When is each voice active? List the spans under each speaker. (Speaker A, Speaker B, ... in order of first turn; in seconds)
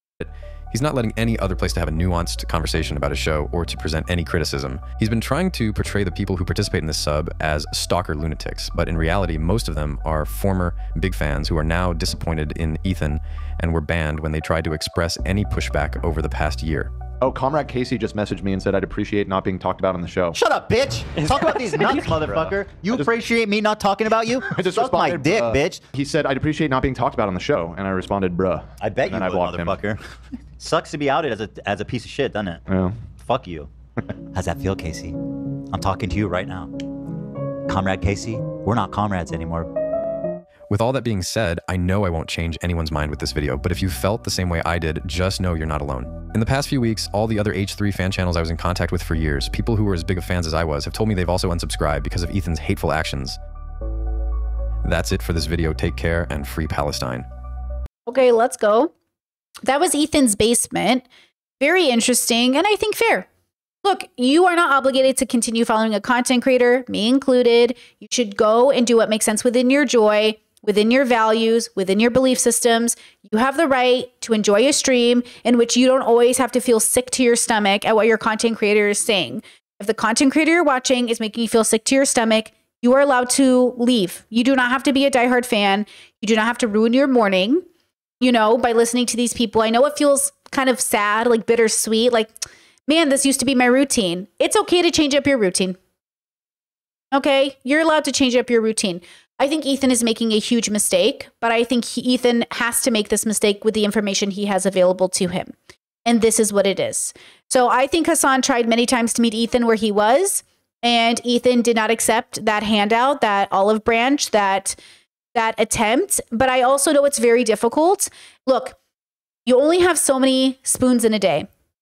Speaker A: 0.2-16.9, 40.7-53.4, 54.8-57.3
Speaker B: 17.2-20.4, 21.2-23.1, 24.5-29.8, 32.7-33.0
Speaker C: 20.3-25.8, 28.8-30.0, 30.6-32.6, 33.1-33.7, 34.3-35.2, 35.7-36.7, 37.7-39.7
Speaker D: 58.1-58.9, 59.6-61.0, 61.6-63.3, 63.8-87.6, 88.2-95.8, 97.1-105.5, 106.0-114.8, 115.3-118.8, 119.5-121.5